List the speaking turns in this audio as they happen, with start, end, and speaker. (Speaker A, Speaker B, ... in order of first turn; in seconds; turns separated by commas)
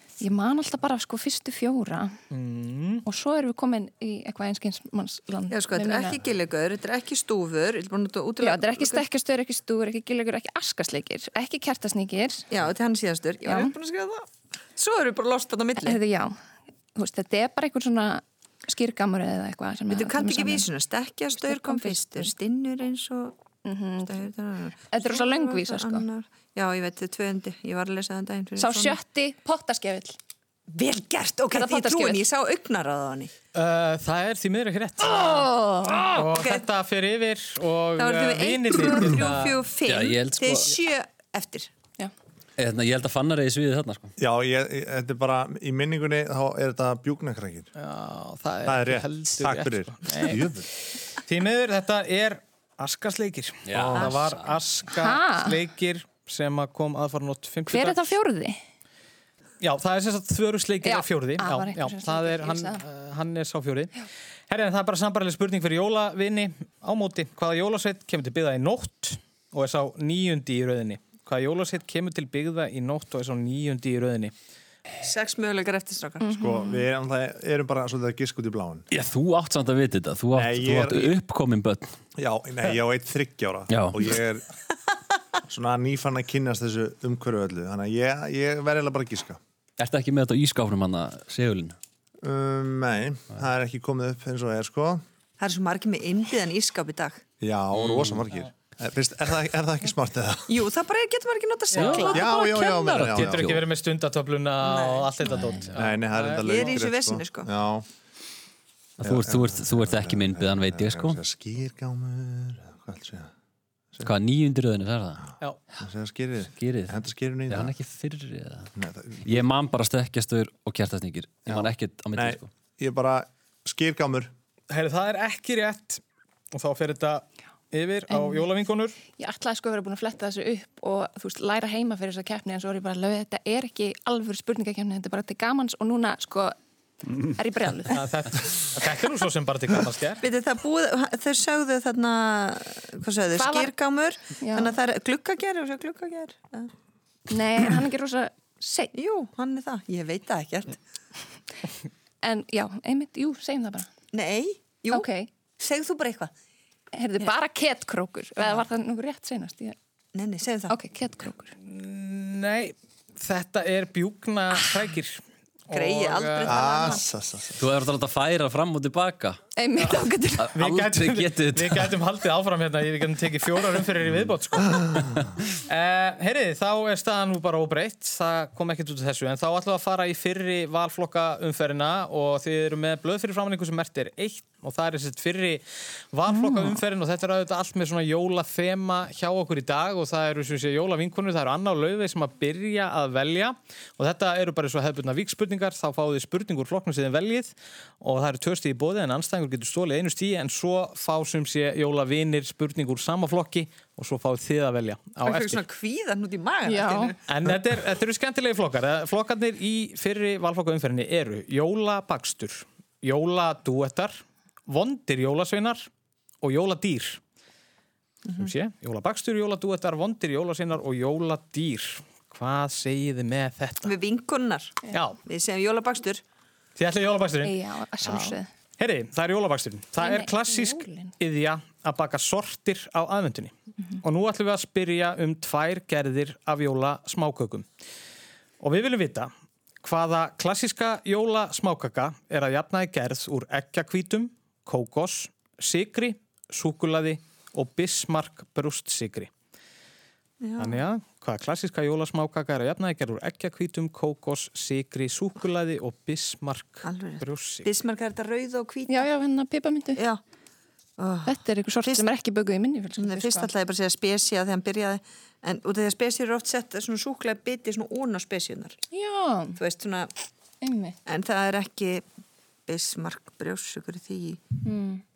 Speaker A: 0.2-2.1, Speaker B: 2.3-3.0, Speaker A: 3.0-6.2, Speaker C: 5.5-9.1, Speaker A: 8.4-12.4, Speaker C: 12.5-16.0, Speaker A: 13.4-13.7, Speaker A: 15.8-16.4, Speaker A: 16.9-20.7, Speaker C: 19.9-23.4, Speaker A: 21.4-22.3, Speaker A: 23.6-24.2, Speaker C: 24.1-29.0, Speaker A: 24.9-26.1, Speaker A: 28.6-30.2, Speaker C: 30.7-33.3, Speaker A: 31.5-32.2, Speaker B: 33.5-35.5, Speaker C: 35.2-35.4, Speaker A: 35.2-36.1, Speaker B: 36.1-39.6, Speaker C: 36.1-36.6, Speaker C: 38.0-41.7, Speaker D: 39.9-40.7, Speaker D: 42.6-44.1, Speaker E: 44.2-47.7, Speaker B: 47.8-50.5, Speaker E: 48.7-50.7, Speaker B: 51.2-58.2, Speaker D: 53.7-54.5, Speaker E: 53.7-54.1, Speaker A: 54.9-55.6, Speaker A: 57.7-58.6, Speaker B: 59.6-64.0, Speaker A: 60.8-62.8, Speaker B: 64.5-74.3, Speaker C: 75.0-76.3, Speaker A: 76.2-76.9, Speaker E: 76.3-78.8, Speaker D: 78.9-81.9, Speaker E: 80.3-81.2, Speaker E: 82.2-84.4, Speaker D: 83.7-84.0, Speaker E: 85.5-89.4, Speaker D: 89.8-91.8, Speaker E: 92.2-95.0, Speaker C: 95.4-97.2, Speaker E: 97.4-100.7, Speaker D: 97.7-98.2, Speaker C: 100.5-102.3, Speaker B: 101.7-102.2, Speaker D: 101.8-103.6, Speaker E: 102.0-103.6, Speaker B: 103.2-106.8, Speaker C: 104.6-105.2, Speaker E: 105.8-107.9, Speaker C: 106.4-107.5, Speaker D: 109.0-111.2, Speaker E: 109.0-113.3, Speaker D: 114.0-115.2, Speaker E: 115.8-117.7, Speaker D: 116.6-118.7, Speaker E: 118.8-119.4, Speaker D: 119.2-122.5, Speaker E: 121.5-124.3, Speaker B: 124.7-126.0, Speaker B: 126.5-129.0, Speaker A: 128.1-128.4, Speaker A: 129.1-136.6, Speaker A: 137.3-138.0, Speaker B: 137.9-140.2, Speaker C: 140.2-146.7, Speaker A: 143.3-143.7, Speaker A: 144.4-144.8, Speaker A: 147.3-148.9, Speaker C: 148.9-150.8, Speaker A: 152.2-153.9, Speaker C: 154.1-155.1, Speaker A: 154.9-155.3, Speaker C: 155.6-156.3, Speaker A: 156.9-159.8, Speaker C: 160.2-160.8, Speaker A: 160.7-161.5, Speaker B: 161.6-167.0, Speaker C: 165.7-167.0, Speaker E: 166.5-167.6, Speaker D: 167.6-169.4, Speaker A: 169.6-170.5, Speaker D: 170.4-171.9, Speaker B: 170.5-174.9, Speaker B: 175.7-205.6, Speaker A: 186.3-186.8, Speaker C: 205.2-207.2, Speaker A: 206.7-207.2, Speaker B: 207.3-215.9, Speaker B: 216.4-217.2, Speaker B: 218.4-223.9, Speaker C: 223.8-226.2, Speaker B: 224.9-225.2, Speaker B: 226.8-237.7, Speaker A: 227.4-228.5, Speaker A: 230.0-231.1, Speaker B: 238.6-239.3, Speaker B: 239.8-249.3, Speaker C: 250.4-250.8, Speaker B: 250.6-257.7, Speaker C: 256.8-259.1, Speaker A: 258.9-260.0, Speaker C: 261.0-262.1, Speaker A: 261.3-263.5, Speaker C: 263.0-268.8, Speaker A: 268.9-269.6, Speaker C: 269.6-270.1, Speaker A: 270.6-271.0, Speaker C: 271.1-272.1, Speaker C: 272.7-274.5, Speaker A: 274.6-275.0